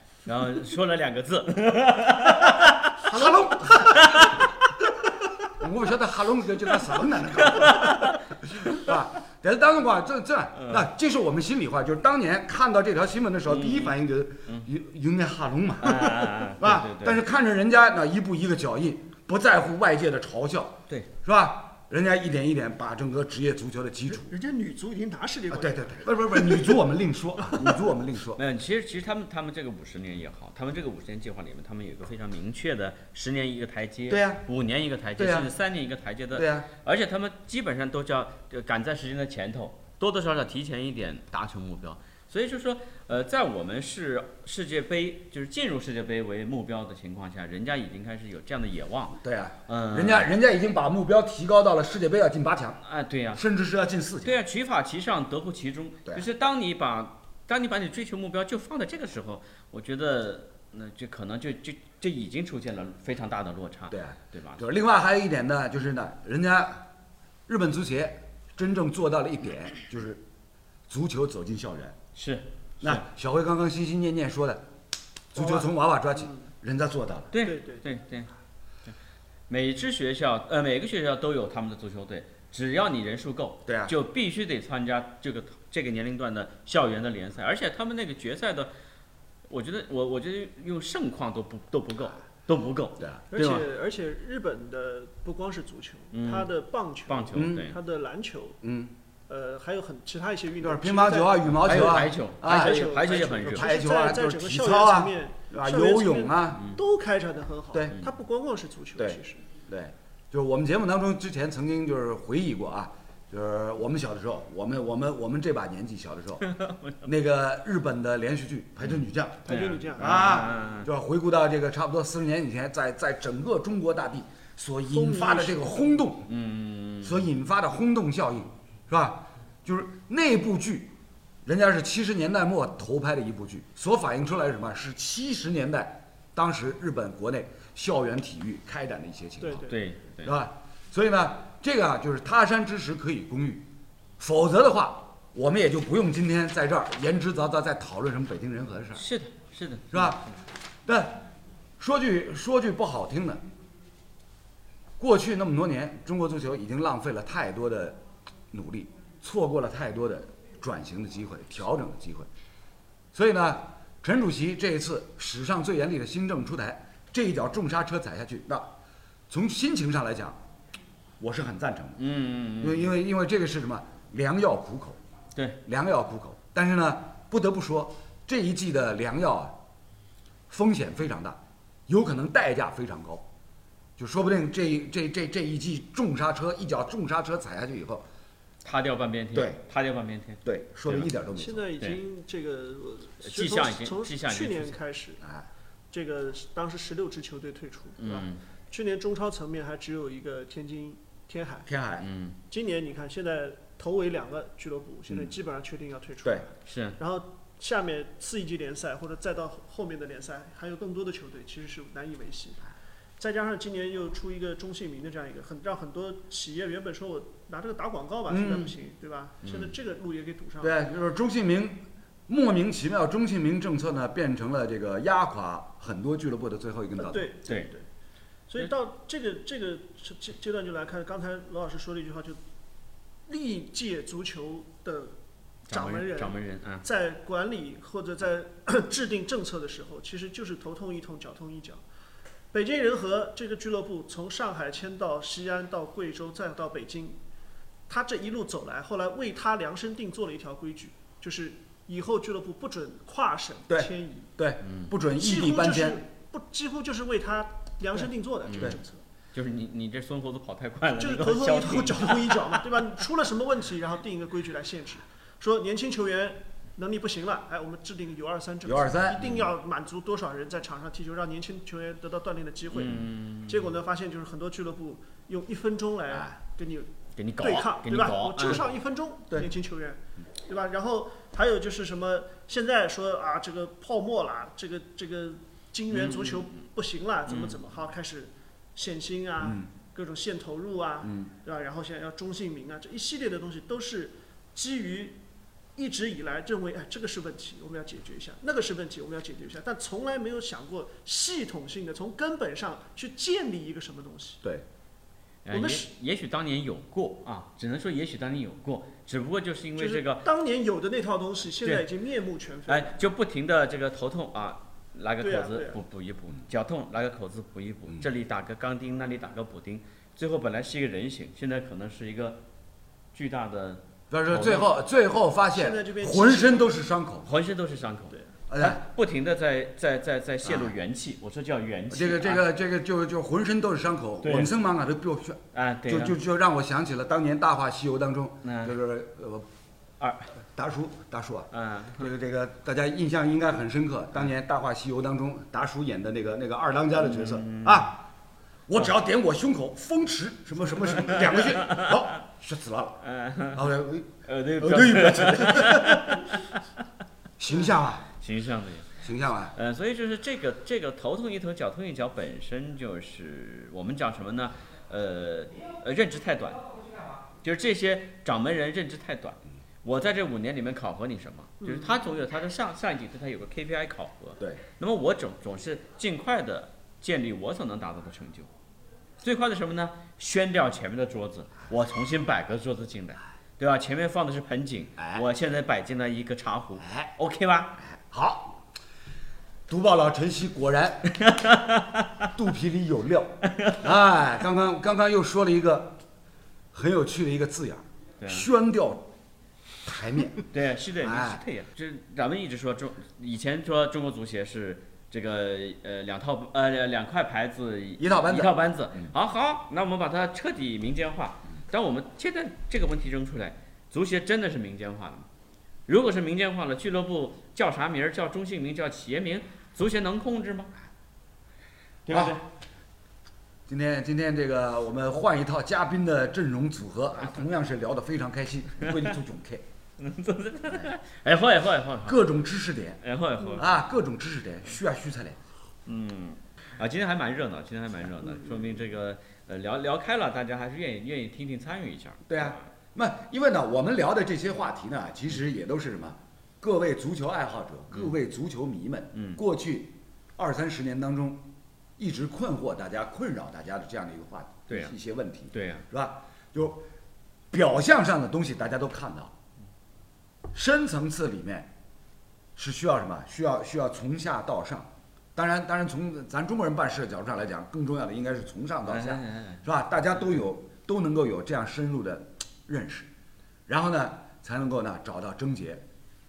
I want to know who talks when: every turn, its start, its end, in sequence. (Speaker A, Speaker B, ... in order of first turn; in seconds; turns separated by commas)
Speaker A: 0.2-3.1, Speaker B: 3.0-24.3, Speaker A: 3.7-4.4, Speaker A: 7.4-8.8, Speaker A: 10.6-10.8, Speaker A: 13.5-13.9, Speaker A: 15.8-17.2, Speaker C: 24.1-26.8, Speaker B: 25.5-28.4, Speaker A: 28.4-50.3, Speaker B: 34.1-34.4, Speaker B: 35.2-35.5, Speaker B: 36.3-36.7, Speaker B: 49.2-52.8, Speaker A: 52.8-53.4, Speaker B: 53.3-54.4, Speaker A: 54.2-64.6, Speaker B: 63.9-66.8, Speaker B: 67.5-70.2, Speaker B: 70.9-72.0, Speaker A: 72.1-73.0, Speaker B: 72.8-74.6, Speaker B: 75.3-77.3, Speaker C: 75.4-75.6, Speaker A: 77.3-78.3, Speaker C: 77.4-77.8, Speaker A: 79.5-88.7, Speaker B: 83.7-83.9, Speaker A: 89.5-93.7, Speaker B: 93.0-93.2, Speaker C: 93.3-98.6, Speaker A: 96.1-96.5, Speaker A: 97.1-97.8, Speaker B: 97.3-97.7, Speaker B: 98.6-98.9, Speaker C: 99.3-109.4, Speaker B: 100.6-106.7, Speaker A: 101.6-103.7, Speaker B: 107.7-108.0, Speaker B: 109.0-116.4, Speaker A: 116.4-117.0, Speaker B: 117.0-126.3, Speaker C: 119.4-120.5, Speaker A: 119.5-120.9, Speaker C: 124.9-126.1, Speaker A: 126.3-127.2, Speaker B: 127.0-130.9, Speaker B: 131.4-139.7, Speaker C: 139.4-139.8, Speaker A: 139.7-140.3, Speaker B: 140.2-143.7, Speaker B: 144.2-149.0, Speaker A: 148.9-150.3, Speaker B: 149.9-150.2, Speaker B: 150.8-151.3, Speaker B: 151.8-153.4, Speaker B: 155.0-158.0, Speaker B: 158.5-162.3, Speaker B: 163.1-168.7, Speaker B: 169.3-170.4, Speaker B: 171.2-172.0, Speaker A: 172.0-172.9, Speaker B: 172.6-175.0, Speaker B: 175.7-179.6, Speaker B: 180.5-183.2, Speaker B: 184.0-188.1, Speaker A: 188.6-191.1, Speaker B: 189.3-189.6, Speaker B: 190.4-191.7, Speaker C: 191.3-195.2, Speaker A: 193.2-194.8, Speaker C: 195.9-201.7, Speaker A: 198.0-198.4, Speaker B: 201.7-202.1, Speaker A: 202.0-202.4, Speaker C: 202.5-212.6, Speaker A: 206.6-207.0, Speaker C: 213.2-220.8, Speaker B: 218.3-218.7, Speaker A: 219.4-219.7, Speaker B: 220.6-227.3, Speaker C: 227.0-227.9, Speaker C: 228.5-232.4, Speaker C: 233.3-235.2, Speaker A: 235.7-236.8, Speaker C: 235.7-241.8, Speaker C: 242.5-247.2, Speaker C: 247.9-254.3, Speaker B: 253.7-256.0, Speaker A: 254.6-254.9, Speaker C: 255.2-259.0, Speaker A: 258.5-258.8, Speaker A: 259.3-262.6, Speaker C: 261.0-295.2, Speaker B: 268.6-269.4, Speaker A: 272.7-273.7, Speaker A: 277.1-278.6, Speaker A: 287.3-287.6, Speaker B: 289.4-289.7, Speaker B: 291.0-291.3, Speaker C: 295.8-304.4, Speaker A: 305.4-310.2, Speaker C: 305.5-305.9, Speaker C: 309.8-313.0, Speaker A: 312.7-322.4, Speaker C: 315.2-315.8, Speaker A: 323.1-324.7, Speaker B: 324.1-327.3, Speaker C: 325.5-326.8, Speaker A: 327.2-332.4, Speaker B: 328.5-328.8, Speaker B: 330.4-330.7, Speaker B: 331.9-339.4, Speaker A: 334.2-334.5, Speaker A: 335.5-336.1, Speaker A: 338.4-338.8, Speaker A: 340.0-340.3, Speaker B: 340.5-348.1, Speaker A: 341.5-342.0, Speaker A: 347.0-347.9, Speaker B: 348.7-353.0, Speaker A: 351.0-351.9, Speaker A: 353.0-353.6, Speaker B: 353.5-356.3, Speaker A: 354.2-356.6, Speaker B: 357.4-358.1, Speaker A: 358.2-359.0, Speaker B: 359.0-359.5, Speaker A: 359.5-366.8, Speaker A: 367.4-378.5, Speaker C: 371.6-372.0, Speaker A: 379.2-387.8, Speaker B: 385.0-385.2, Speaker B: 387.9-388.6, Speaker B: 389.7-391.1, Speaker A: 391.1-392.3, Speaker B: 392.3-396.0, Speaker A: 393.5-393.8, Speaker B: 396.7-399.1, Speaker A: 398.2-398.5, Speaker B: 399.8-400.4, Speaker A: 400.5-415.3, Speaker B: 401.0-401.4, Speaker B: 408.0-409.1, Speaker A: 415.9-420.7, Speaker A: 422.1-422.4, Speaker B: 422.1-422.4, Speaker B: 423.7-429.6, Speaker A: 430.0-432.2, Speaker B: 432.0-433.0, Speaker A: 433.0-433.7, Speaker B: 433.5-435.4, Speaker A: 435.9-442.5, Speaker B: 442.3-451.4, Speaker A: 449.1-449.4, Speaker B: 452.0-456.9, Speaker A: 454.7-454.9, Speaker A: 455.5-455.9, Speaker B: 457.5-459.3, Speaker B: 460.5-461.7, Speaker B: 462.6-473.1, Speaker A: 468.9-469.6, Speaker B: 473.7-475.8